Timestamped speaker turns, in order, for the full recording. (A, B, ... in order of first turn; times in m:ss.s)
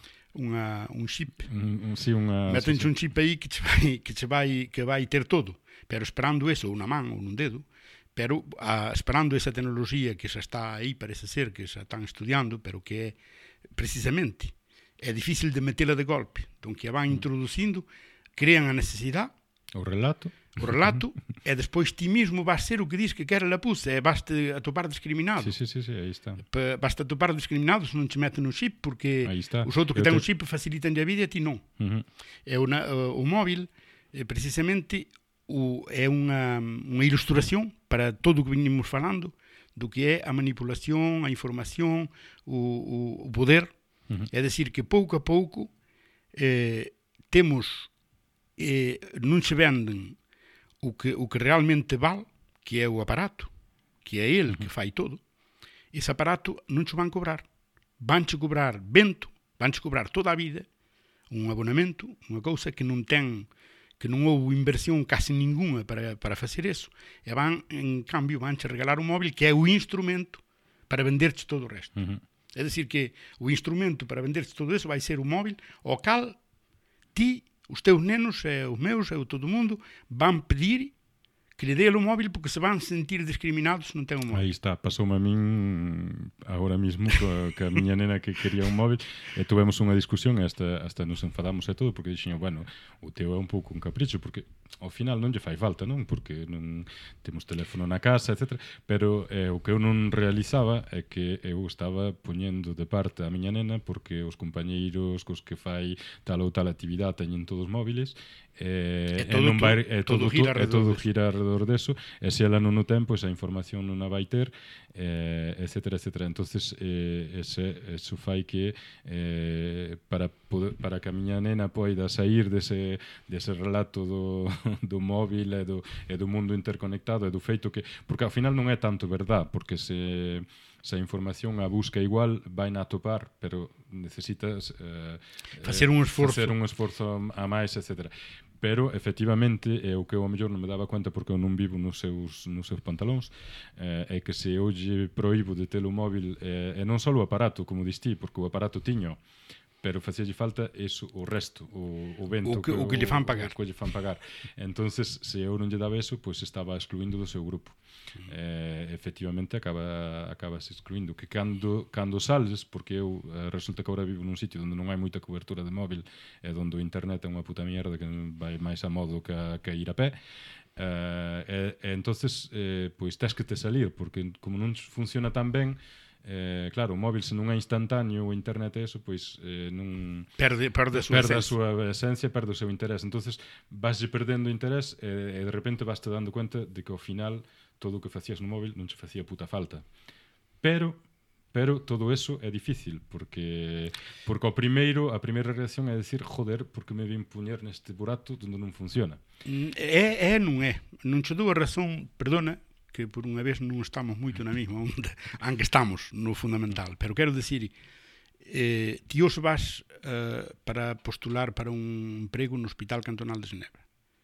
0:00.3-0:01.5 A
0:01.5-0:02.9 B
0:02.5-0:07.6 A
0:08.2-0:13.2 A
0:13.8-0:19.3 A
0:19.7-0:21.0 B
0:20.6-0:25.6 A
0:25.4-0:26.4 B
0:26.4-0:31.6 A
0:29.2-0:30.2 B
0:31.8-0:32.1 B
0:32.5-0:43.7 A
0:44.3-0:45.7 A
0:46.3-0:47.9 A
0:48.6-0:50.2 A
0:50.8-0:53.5 A
0:54.0-0:55.2 A
0:55.9-0:57.5 A
0:58.0-1:00.7 A
1:01.3-1:03.5 A
1:04.0-1:12.0 A
1:12.6-1:16.4 A
1:17.2-1:20.9 A
1:21.6-1:24.5 A
1:24.3-2:29.2 B
1:49.1-1:51.0 A
2:15.6-2:16.6 A
2:29.8-2:50.2 B
2:32.4-2:33.5 A
2:50.8-3:00.3 B
3:00.4-3:01.5 A
3:00.9-3:09.8 B
3:10.6-3:11.0 B
3:11.5-3:19.2 B
3:19.5-3:27.7 A
3:28.4-3:33.8 A